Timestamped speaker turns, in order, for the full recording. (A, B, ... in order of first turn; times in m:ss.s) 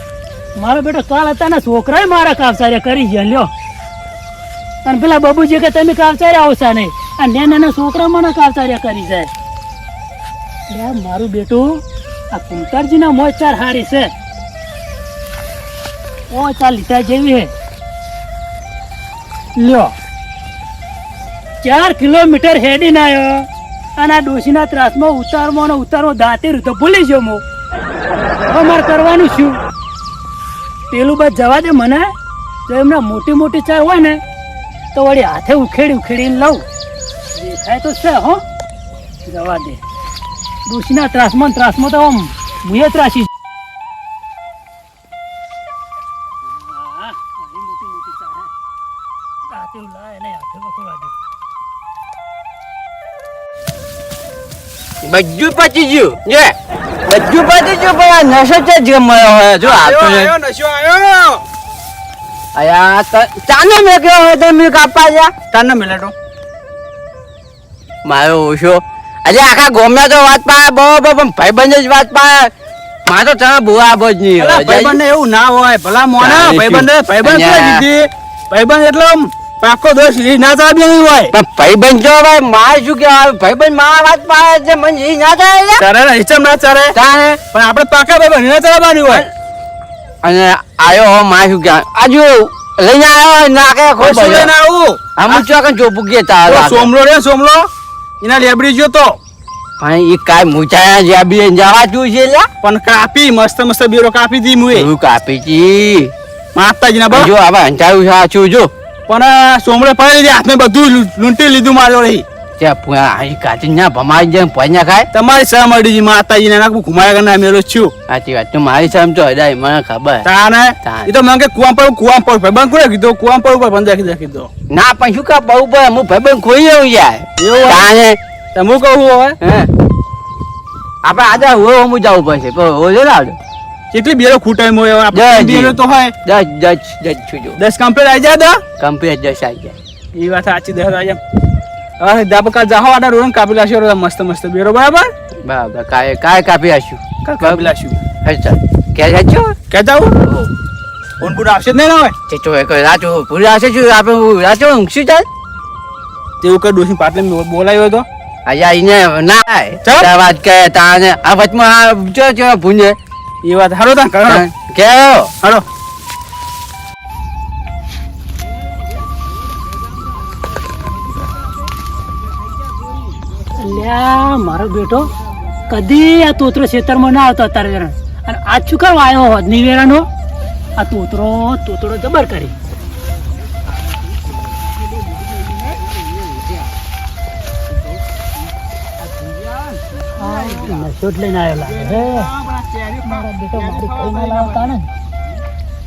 0:00.6-0:03.5 A
0:04.8-0:09.3 A
0:10.7-0:14.1 A
0:16.3-0:17.5 A
0:19.6-0:19.9 A
0:21.6-0:27.4 A
0:28.4-0:29.6 A
0:30.9-0:32.1 A
0:32.7-0:34.2 A
0:34.9-0:36.6 A
0:37.4-0:38.4 A
0:39.3-0:39.8 A
0:40.7-0:43.3 A
0:46.5-0:48.5 A
0:49.5-0:51.1 A
0:55.0-0:56.6 B
0:57.1-1:00.3 B
0:59.6-1:01.4 C
1:02.6-1:05.4 B
1:05.5-1:06.1 C
1:08.0-1:12.5 B
1:13.0-1:15.0 B
1:14.4-1:21.3 C
1:16.2-1:17.9 B
1:21.3-1:25.9 B
1:25.8-1:27.0 C
1:26.9-1:27.4 B
1:27.5-1:29.3 C
1:30.2-1:34.5 B
1:34.0-1:35.5 C
1:35.2-1:36.9 B
1:36.5-1:37.7 C
1:38.2-1:39.2 C
1:39.8-1:42.5 B
1:42.6-1:44.9 C
1:44.7-1:46.1 B
1:46.6-1:47.3 C
1:47.1-1:48.7 B
1:49.1-1:52.2 C
1:52.6-1:55.1 B
1:55.1-1:57.9 C
1:58.1-2:00.3 B
2:00.2-2:04.5 C
2:00.8-2:01.1 B
2:04.7-2:08.2 B
2:07.4-2:07.9 C
2:08.6-2:09.4 C
2:09.4-2:09.7 B
2:11.0-2:13.4 B
2:13.9-2:16.2 C
2:15.1-2:17.6 B
2:17.6-2:18.6 C
2:18.8-2:19.8 B
2:20.2-2:21.2 C
2:22.0-2:25.1 C
2:25.4-2:29.6 B
2:27.2-2:28.0 C
2:29.7-2:30.2 C
2:30.2-2:30.5 B
2:31.2-2:32.2 C
2:32.3-2:35.3 B
2:36.4-2:38.1 C
2:38.4-2:43.0 B
2:39.8-2:40.1 C
2:43.4-2:44.5 C
2:44.3-2:45.3 B
2:52.6-2:53.2 B
2:53.6-2:55.1 A
2:55.7-3:00.1 A
3:00.8-3:02.5 A
3:03.4-3:06.7 B
3:07.7-3:08.0 B
3:09.0-3:09.8 B
3:10.2-3:12.3 A
3:10.2-3:10.7 C
3:11.7-3:14.8 C
3:13.0-3:14.9 A